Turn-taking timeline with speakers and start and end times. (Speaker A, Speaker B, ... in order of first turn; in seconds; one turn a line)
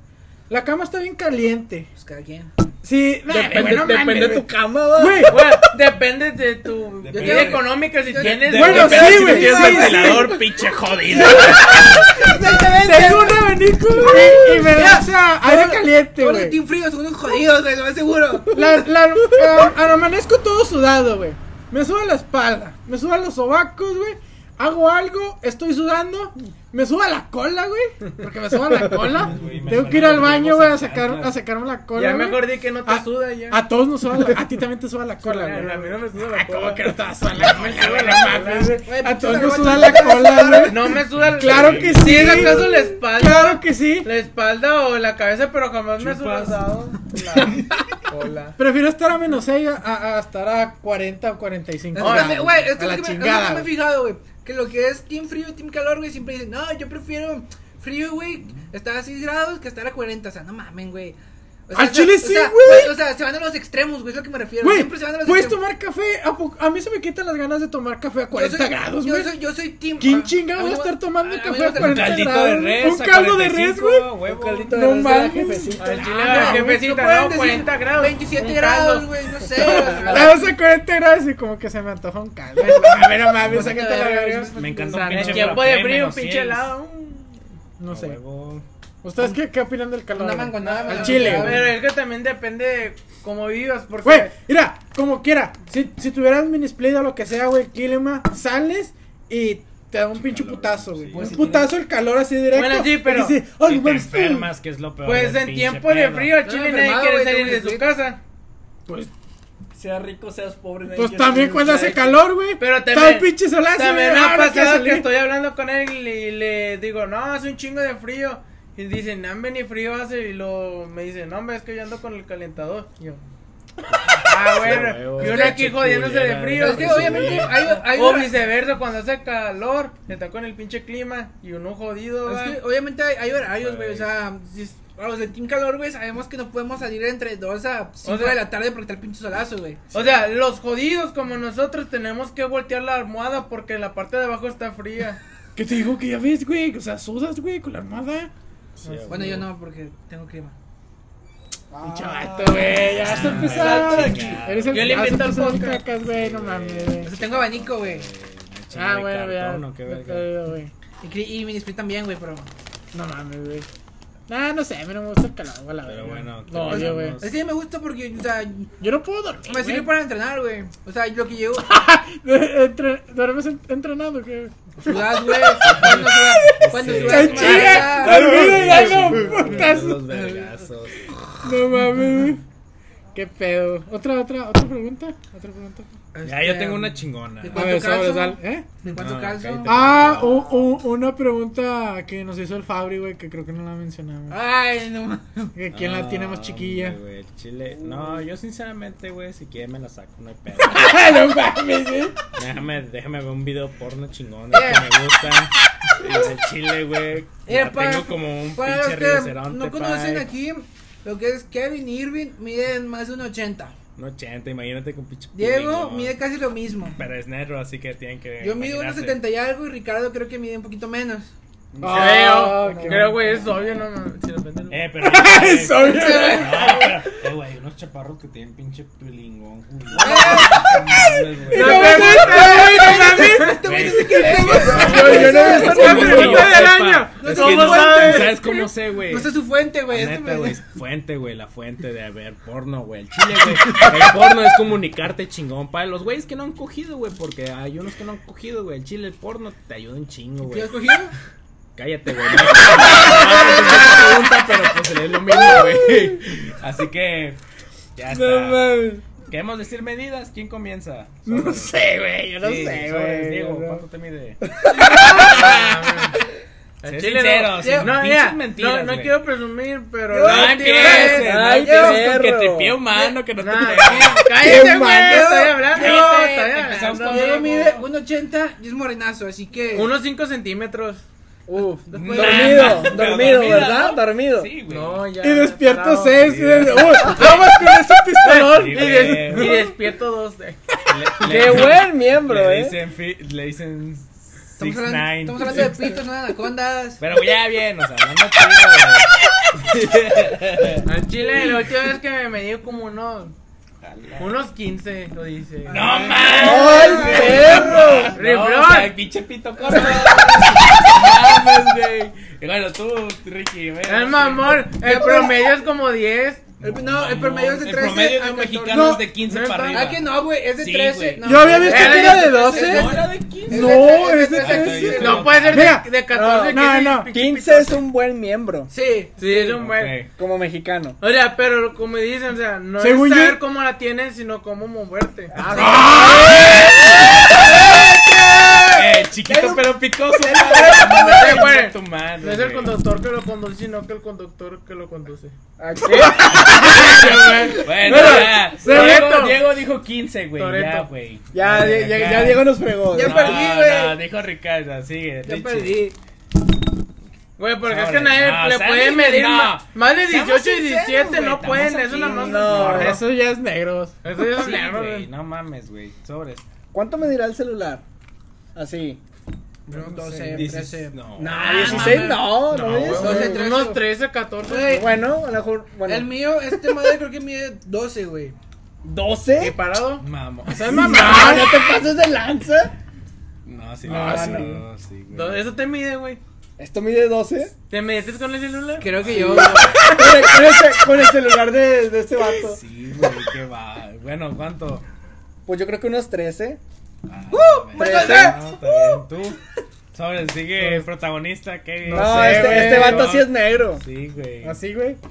Speaker A: 0.5-1.9
Speaker B: 1.9-2.5
Speaker A: 2.8-5.5
Speaker C: 3.3-5.4
Speaker D: 5.2-10.2
Speaker E: 7.0-12.2
Speaker B: 7.1-10.3
Speaker A: 8.5-10.3
Speaker C: 8.9-10.1
Speaker B: 11.1-18.7
Speaker A: 12.6-16.6
Speaker A: 18.5-44.1
Speaker E: 28.8-31.4
Speaker D: 31.9-33.6
Speaker D: 35.2-38.7
Speaker B: 38.7-41.0
Speaker D: 40.6-48.5
Speaker E: 41.1-42.5
Speaker B: 42.2-42.9
Speaker E: 46.0-46.6
Speaker A: 48.6-53.7
Speaker B: 51.9-61.1
Speaker D: 52.0-52.5
Speaker B: 61.7-65.6
Speaker A: 61.7-63.0
Speaker A: 64.6-69.3
Speaker B: 68.3-72.4
Speaker A: 70.0-74.1
Speaker E: 71.7-74.8
Speaker C: 74.2-76.0
Speaker A: 74.7-76.8
Speaker D: 75.8-80.2
Speaker B: 76.2-80.5
Speaker A: 79.6-85.1
Speaker B: 82.6-85.6
Speaker E: 83.4-83.7
Speaker E: 84.5-86.7
Speaker D: 85.1-87.4
Speaker A: 87.8-88.2
Speaker E: 87.9-88.6
Speaker A: 89.0-91.7
Speaker B: 90.1-91.8
Speaker D: 90.6-94.3
Speaker A: 94.0-104.5
Speaker E: 100.1-101.6
Speaker C: 101.1-101.7
Speaker D: 102.5-103.4
Speaker E: 103.5-106.4
Speaker D: 105.0-108.2
Speaker B: 106.4-107.8
Speaker C: 109.7-112.2
Speaker A: 110.9-115.1
Speaker D: 112.6-123.2
Speaker E: 123.9-127.7
Speaker D: 124.2-132.6
Speaker B: 125.2-125.7
Speaker B: 126.5-128.3
Speaker B: 132.2-139.9
Speaker E: 133.5-134.1
Speaker D: 138.0-138.4
Speaker D: 139.9-145.2
Speaker E: 139.9-140.2
Speaker A: 145.5-148.3
Speaker E: 148.8-149.5
Speaker B: 149.1-150.6
Speaker C: 151.7-152.7
Speaker A: 151.8-157.1
Speaker E: 152.7-155.3
Speaker D: 153.4-155.8
Speaker E: 155.9-160.4
Speaker B: 157.0-158.1
Speaker A: 158.7-160.7
Speaker B: 161.0-162.5
Speaker A: 162.9-163.7
Speaker A: 164.3-167.2
Speaker E: 165.9-167.4
Speaker D: 166.5-166.9
Speaker B: 166.7-168.7
Speaker A: 168.8-169.9
Speaker B: 169.5-171.7
Speaker A: 171.6-175.9
Speaker B: 174.8-180.4
Speaker E: 175.6-181.1
Speaker A: 176.8-180.1
Speaker C: 178.3-178.7
Speaker A: 181.4-182.4
Speaker A: 183.1-185.9
Speaker B: 186.1-190.1
Speaker E: 186.2-187.9
Speaker A: 187.5-188.7
Speaker E: 188.9-190.5
Speaker A: 189.6-194.4
Speaker B: 194.3-195.6
Speaker A: 195.5-197.0
Speaker E: 195.7-201.1
Speaker A: 200.6-202.2
Speaker E: 202.3-210.3
Speaker B: 204.5-204.9
Speaker B: 207.4-213.8
Speaker E: 213.9-216.2
Speaker B: 215.3-217.0
Speaker E: 217.0-219.2
Speaker B: 218.4-221.3
Speaker E: 221.8-222.4
Speaker A: 221.8-223.2
Speaker D: 221.9-224.8
Speaker E: 223.2-223.8
Speaker E: 224.7-232.7
Speaker A: 225.0-227.0
Speaker B: 225.8-226.8
Speaker B: 229.9-231.0
Speaker A: 230.3-238.2
Speaker D: 231.5-233.3
Speaker B: 231.5-236.6
Speaker E: 233.4-250.7
Speaker C: 234.4-236.6
Speaker D: 234.9-238.5
Speaker B: 237.2-240.6
Speaker B: 250.4-251.1
Speaker E: 251.8-257.4
Speaker C: 255.7-256.0
Speaker E: 257.9-261.8
Speaker C: 258.1-259.0
Speaker A: 261.2-263.8
Speaker E: 262.4-264.4
Speaker A: 264.6-265.6
Speaker D: 264.9-266.2
Speaker B: 265.0-265.5
Speaker E: 265.0-265.8
Speaker D: 266.8-271.3
Speaker E: 266.8-269.2
Speaker B: 267.6-267.9
Speaker B: 270.1-272.2
Speaker E: 270.2-274.4
Speaker C: 271.1-272.8
Speaker D: 273.4-277.4
Speaker A: 274.4-275.4
Speaker B: 274.4-279.9
Speaker E: 275.6-277.9
Speaker D: 279.7-281.0
Speaker C: 281.5-284.5
Speaker B: 281.9-283.1
Speaker E: 281.9-285.0
Speaker D: 284.7-286.2
Speaker A: 285.2-289.7
Speaker E: 286.1-287.4
Speaker D: 287.0-287.5
Speaker D: 288.2-290.6
Speaker E: 288.4-289.6
Speaker E: 290.9-295.9
Speaker C: 291.2-292.8
Speaker B: 294.6-297.0
Speaker E: 297.0-300.9
Speaker D: 300.8-303.3
Speaker E: 303.8-304.3
Speaker D: 304.2-307.4
Speaker B: 305.7-307.9
Speaker E: 305.7-314.7
Speaker C: 306.4-308.2
Speaker D: 308.1-308.9
Speaker B: 309.7-310.4
Speaker D: 313.9-316.4
Speaker B: 314.7-315.5
Speaker E: 316.6-325.8
Speaker B: 316.6-319.1
Speaker A: 318.7-319.1
Speaker D: 319.2-319.9
Speaker B: 319.7-325.4
Speaker A: 321.2-327.1
Speaker D: 321.6-322.8
Speaker D: 324.9-327.8
Speaker C: 326.1-328.7
Speaker B: 328.7-329.6
Speaker D: 329.2-330.0
Speaker E: 329.6-330.1
Speaker C: 330.2-331.0
Speaker D: 331.0-335.4
Speaker A: 332.8-333.4
Speaker C: 335.3-336.8
Speaker B: 335.4-336.3
Speaker A: 335.5-336.5
Speaker C: 337.4-339.6
Speaker E: 338.7-342.8
Speaker C: 340.2-341.4
Speaker B: 340.2-341.5
Speaker D: 341.1-345.3
Speaker C: 345.6-347.9
Speaker E: 346.0-346.9
Speaker A: 346.4-349.1
Speaker D: 346.4-349.5
Speaker E: 347.6-355.9
Speaker D: 350.4-350.9
Speaker C: 351.3-353.4
Speaker B: 352.9-354.0
Speaker B: 355.2-355.9
Speaker D: 357.4-363.0
Speaker E: 357.6-363.0
Speaker B: 360.5-361.2
Speaker B: 361.9-362.4
Speaker C: 362.0-363.0
Speaker A: 362.6-363.9
Speaker D: 364.0-365.1
Speaker E: 364.2-366.4
Speaker C: 366.7-367.8
Speaker C: 368.5-369.0
Speaker B: 369.7-371.0
Speaker A: 369.7-370.5
Speaker E: 370.3-373.0
Speaker C: 371.1-373.4
Speaker D: 371.2-374.9
Speaker A: 372.8-373.7
Speaker B: 372.9-373.8
Speaker B: 374.5-374.9
Speaker C: 374.7-377.0
Speaker B: 375.8-378.4
Speaker C: 378.8-379.5
Speaker D: 379.4-380.0
Speaker E: 380.0-380.9
Speaker A: 380.5-381.6
Speaker C: 380.7-382.7
Speaker E: 383.4-385.4
Speaker A: 383.8-384.6
Speaker D: 383.9-384.5
Speaker D: 385.1-386.2
Speaker C: 386.6-387.5
Speaker D: 387.7-389.4
Speaker B: 388.8-389.9
Speaker E: 388.8-389.8
Speaker C: 389.1-392.6
Speaker E: 392.4-394.8
Speaker C: 395.4-396.6
Speaker E: 397.1-399.4
Speaker B: 397.3-398.6
Speaker C: 397.7-398.4
Speaker E: 399.9-404.6
Speaker A: 400.6-400.9
Speaker A: 401.8-403.1
Speaker C: 401.9-403.8
Speaker D: 402.0-403.2
Speaker A: 404.4-405.0